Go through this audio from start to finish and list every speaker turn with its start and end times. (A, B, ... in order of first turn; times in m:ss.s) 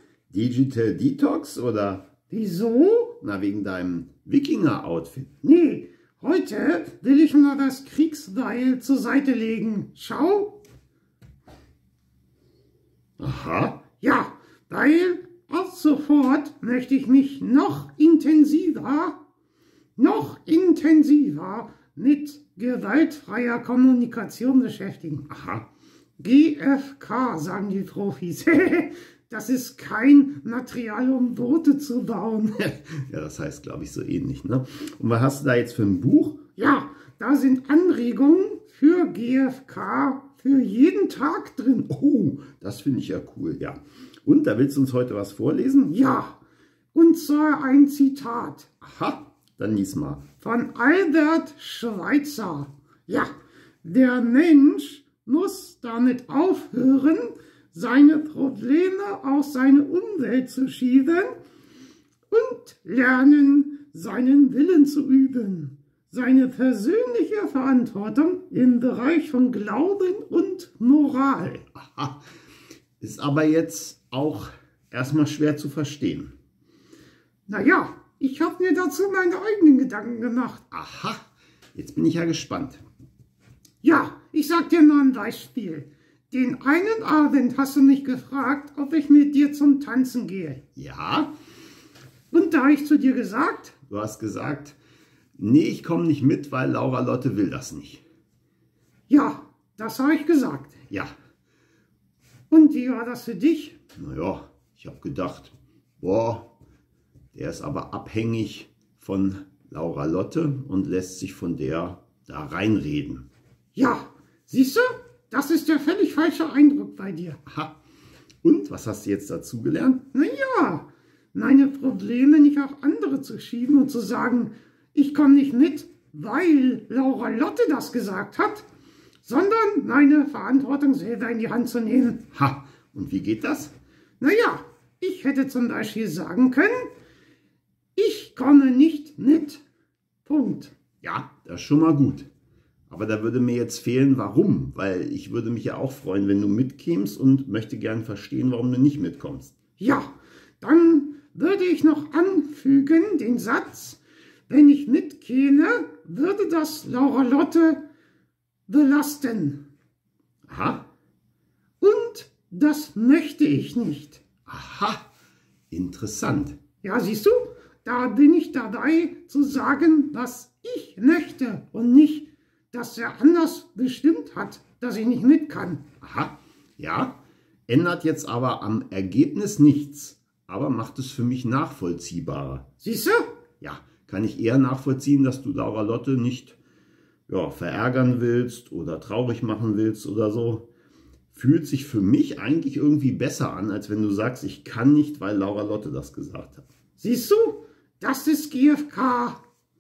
0:00.3-0:02.1 A
0:02.3-0:03.2 B
0:03.2-0:05.4 A
0:05.4-0:10.6 B
0:13.2-0:13.9 A
0:14.0-0:19.2 B
0:20.0-0:25.3 B
0:25.3-0:25.7 A
0:26.2-0:32.6 B
0:32.6-0:36.4 A
0:36.6-0:41.9 B
0:41.9-0:45.9 A
0:45.9-0:46.4 B
0:46.9-0:48.7 B
0:48.8-0:50.3 A
0:50.4-1:01.3 B
1:02.3-1:11.7 B
1:11.8-1:12.2 A
1:13.0-1:16.3 A
1:17.5-1:20.6 B
1:20.7-1:21.2 A
1:21.8-1:22.8 A
1:23.8-1:30.6 B
1:30.8-1:31.3 A
1:32.3-1:33.8 B
1:33.9-1:34.8 A
1:35.4-1:38.0 A
1:39.1-1:40.8 B
1:42.5-1:43.8 B
1:44.0-1:46.5 A
1:47.3-1:53.3 A
1:53.8-1:57.4 B
1:57.5-1:57.8 A
1:58.4-2:00.1 A
2:00.1-2:08.7 B
2:09.2-2:12.2 B
2:12.3-2:13.7 A
2:14.2-2:16.9 B
2:18.0-2:19.6 B
2:20.3-2:20.8 B
2:21.0-2:22.3 A
2:22.9-2:29.6 A
2:29.8-2:37.8 B
2:38.7-2:39.6 B
2:40.5-2:40.8 A
2:41.8-2:44.2 B
2:44.5-2:45.0 A
2:45.7-2:46.6 A
2:46.8-2:55.9 B
2:56.0-3:02.7 A
3:02.8-3:03.3 B
3:03.6-3:06.6 A
3:07.3-3:10.7 A
3:11.3-3:16.7 A
3:17.0-3:19.4 B